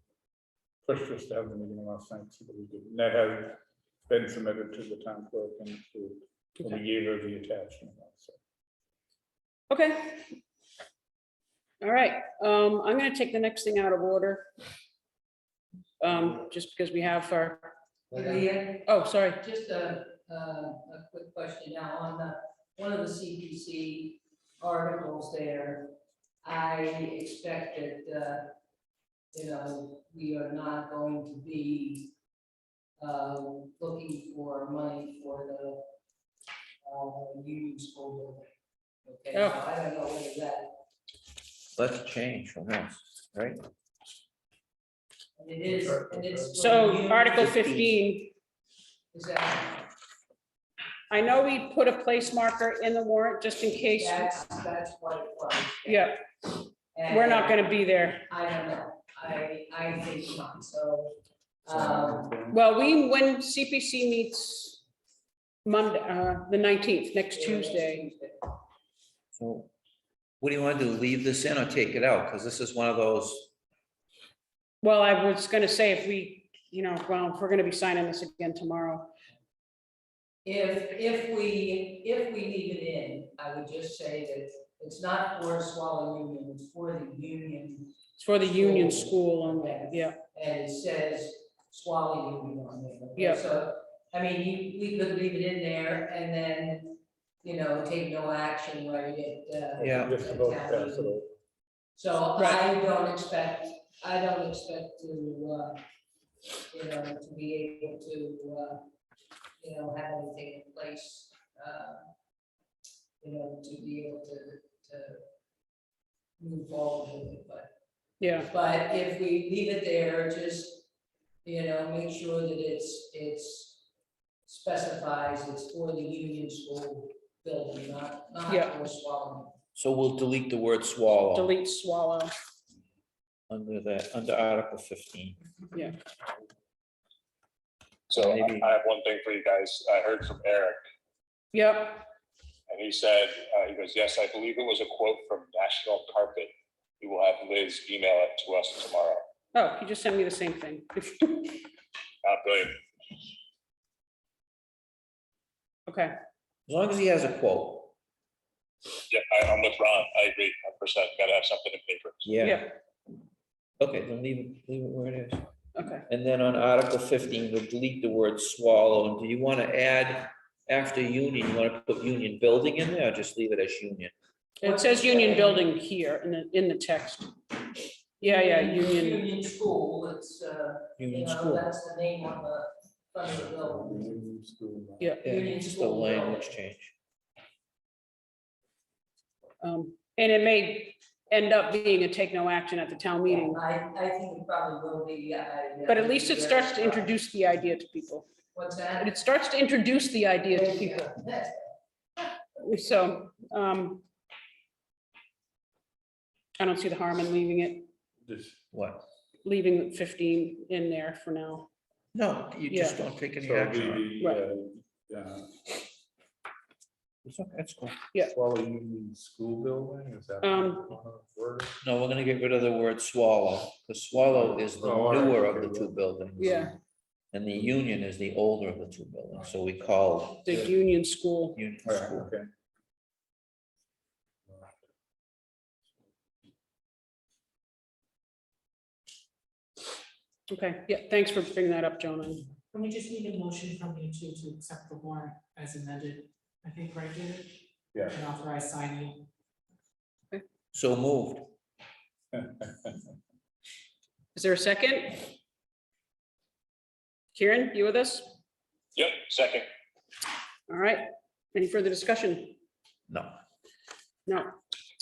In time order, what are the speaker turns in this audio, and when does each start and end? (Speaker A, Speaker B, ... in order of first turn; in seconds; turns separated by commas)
Speaker A: 0.8-8.4, Speaker B: 9.7-10.3, Speaker B: 11.8-14.5, Speaker B: 16.0-17.7, Speaker C: 18.1-25.9, Speaker B: 18.3-19.4, Speaker C: 26.4-28.5, Speaker C: 29.3-32.1, Speaker C: 33.0-35.8, Speaker C: 36.8-38.5, Speaker C: 39.0-40.7, Speaker B: 39.3-39.6, Speaker D: 41.7-43.6, Speaker C: 45.4-47.8, Speaker A: 45.6-46.5, Speaker B: 46.6-48.3, Speaker C: 49.1-49.8, Speaker B: 51.1-54.4, Speaker C: 53.9-56.2, Speaker B: 55.9-56.2, Speaker C: 56.9-62.4, Speaker B: 57.1-58.2, Speaker A: 61.7-62.6, Speaker B: 62.5-64.8, Speaker B: 65.6-68.1, Speaker C: 67.3-68.4, Speaker D: 69.3-69.7, Speaker D: 70.4-73.5, Speaker B: 74.8-79.1, Speaker C: 80.4-101.2, Speaker B: 88.2-90.2, Speaker B: 93.2-93.4, Speaker A: 99.8-101.3, Speaker D: 99.8-100.2, Speaker C: 102.0-105.8, Speaker B: 102.3-102.6, Speaker C: 106.7-108.8, Speaker C: 109.6-112.0, Speaker C: 113.2-115.2, Speaker C: 116.4-117.7, Speaker B: 118.2-118.5, Speaker C: 118.5-120.8, Speaker C: 121.4-123.8, Speaker C: 124.5-129.6, Speaker B: 128.5-128.7, Speaker D: 129.7-131.5, Speaker B: 131.3-132.3, Speaker D: 133.5-135.4, Speaker E: 138.1-140.8, Speaker D: 138.2-138.7, Speaker B: 141.5-142.1, Speaker E: 142.7-149.2, Speaker B: 149.5-151.6, Speaker E: 152.2-152.8, Speaker B: 155.9-156.1, Speaker D: 156.7-157.9, Speaker E: 159.1-162.3, Speaker D: 162.2-162.7, Speaker B: 162.4-162.7, Speaker D: 163.8-165.5, Speaker B: 165.7-166.0, Speaker D: 166.1-174.1, Speaker B: 174.6-177.3, Speaker C: 174.6-175.7, Speaker C: 178.2-184.2, Speaker B: 178.2-179.2, Speaker D: 181.0-181.7, Speaker A: 183.2-185.1, Speaker C: 185.2-186.5, Speaker D: 185.2-186.9, Speaker B: 189.6-193.6, Speaker C: 193.2-197.1, Speaker B: 195.8-198.3, Speaker C: 198.5-199.1, Speaker B: 199.0-201.1, Speaker C: 200.4-201.7, Speaker B: 202.6-204.0, Speaker B: 206.6-207.9, Speaker A: 208.2-208.6, Speaker D: 208.7-209.0, Speaker B: 209.4-211.7, Speaker D: 212.1-214.1, Speaker B: 212.7-213.0, Speaker A: 213.4-215.6, Speaker D: 217.2-218.0, Speaker A: 218.3-221.8, Speaker B: 220.4-220.9, Speaker D: 221.8-226.7, Speaker A: 224.3-225.9, Speaker B: 226.4-226.7, Speaker D: 227.3-230.7, Speaker A: 229.3-229.6, Speaker B: 230.4-231.6, Speaker D: 231.5-232.3, Speaker A: 231.8-232.5, Speaker A: 234.5-234.7, Speaker B: 240.5-242.4, Speaker F: 242.7-249.2, Speaker A: 247.9-248.2, Speaker D: 250.7-251.5, Speaker A: 252.3-252.9, Speaker B: 254.3-255.3, Speaker B: 257.3-258.3, Speaker E: 258.9-259.6, Speaker B: 260.7-262.6, Speaker D: 263.1-263.4, Speaker B: 264.3-264.5